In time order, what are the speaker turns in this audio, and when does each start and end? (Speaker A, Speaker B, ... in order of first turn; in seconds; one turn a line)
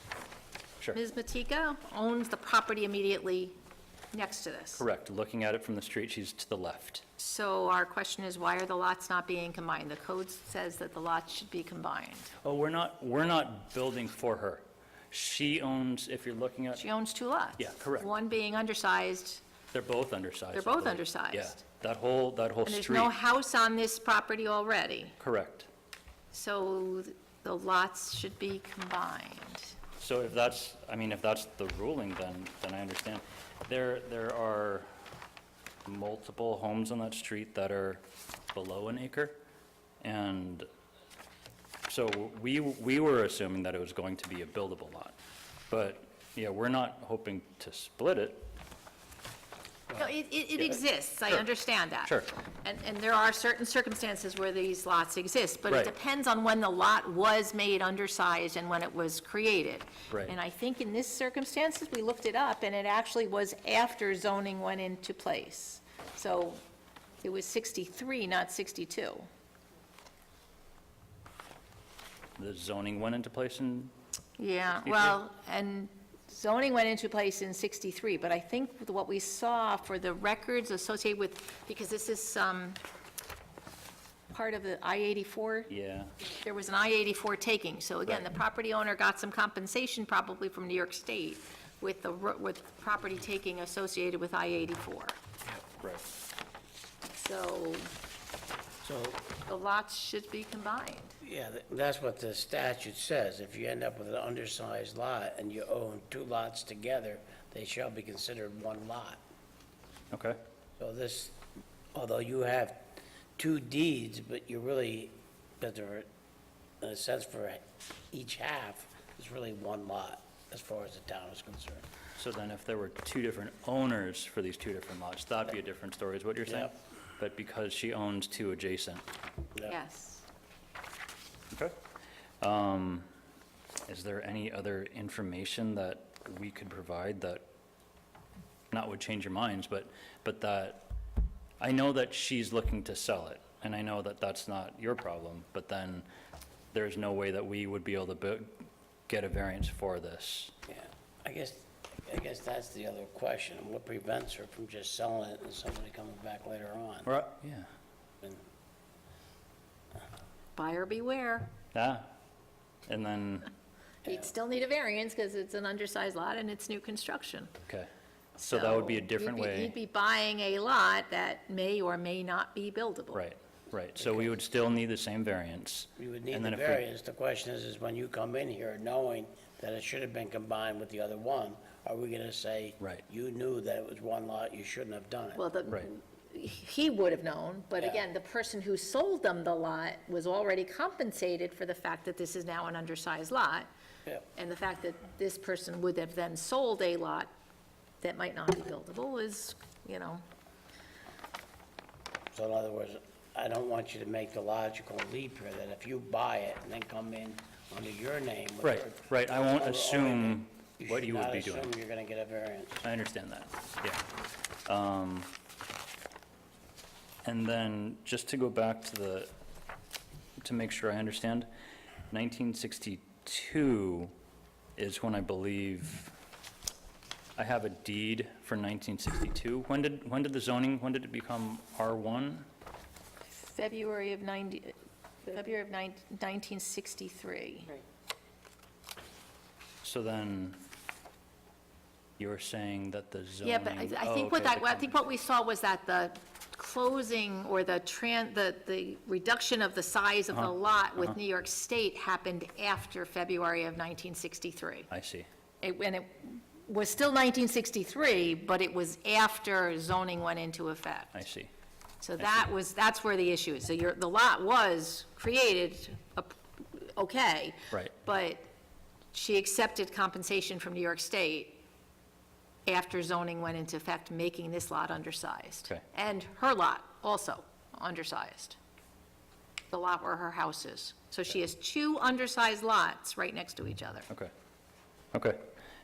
Speaker A: 0.9-3.5
Speaker A: 4.1-4.8
Speaker B: 4.8-7.0
Speaker A: 7.2-12.3
Speaker B: 12.4-16.9
Speaker A: 16.8-19.4
Speaker B: 17.6-18.1
Speaker B: 19.7-23.1
Speaker A: 20.5-21.6
Speaker A: 22.6-25.1
Speaker B: 25.2-25.7
Speaker A: 26.3-29.8
Speaker B: 30.0-34.9
Speaker B: 35.8-38.0
Speaker B: 38.5-39.4
Speaker B: 40.0-40.7
Speaker B: 41.9-45.1
Speaker B: 45.7-48.5
Speaker A: 49.9-66.6
Speaker B: 50.6-51.5
Speaker B: 55.7-55.9
Speaker A: 67.2-69.3
Speaker B: 72.4-73.9
Speaker A: 74.4-82.8
Speaker B: 74.8-75.2
Speaker A: 84.3-85.7
Speaker B: 85.7-86.1
Speaker A: 86.4-95.2
Speaker A: 97.1-97.9
Speaker C: 98.8-99.2
Speaker A: 99.5-101.2
Speaker C: 101.2-109.2
Speaker B: 110.1-110.4
Speaker C: 110.8-111.4
Speaker C: 111.9-112.8
Speaker C: 113.4-116.1
Speaker C: 116.8-121.8
Speaker B: 122.2-129.0
Speaker C: 126.5-126.7
Speaker A: 129.7-130.2
Speaker B: 132.4-133.1
Speaker B: 133.9-137.4
Speaker B: 138.7-140.9
Speaker B: 141.6-146.1
Speaker B: 146.7-150.5
Speaker C: 150.7-157.1
Speaker B: 157.1-157.7
Speaker A: 160.6-161.5
Speaker B: 161.7-162.1
Speaker B: 162.9-163.5
Speaker A: 164.0-167.5
Speaker A: 168.4-173.2
Speaker B: 168.4-169.7
Speaker B: 173.1-176.8
Speaker C: 176.0-185.4
Speaker A: 185.3-193.7
Speaker C: 187.8-188.0
Speaker A: 194.3-197.3
Speaker A: 198.0-200.2
Speaker C: 202.3-212.8
Speaker B: 208.6-211.7
Speaker B: 212.8-214.0
Speaker B: 214.7-215.3
Speaker B: 217.2-219.3
Speaker B: 220.4-221.5
Speaker B: 222.1-224.1
Speaker B: 224.8-226.1
Speaker B: 227.4-232.5
Speaker A: 233.3-237.8
Speaker B: 239.8-240.6
Speaker B: 242.2-244.9
Speaker A: 243.4-254.9
Speaker B: 250.3-251.2
Speaker B: 254.9-255.3
Speaker A: 255.6-261.2
Speaker B: 261.1-261.5
Speaker A: 262.0-268.4
Speaker A: 269.1-271.6
Speaker A: 272.6-278.6
Speaker A: 279.7-284.1
Speaker B: 285.1-285.5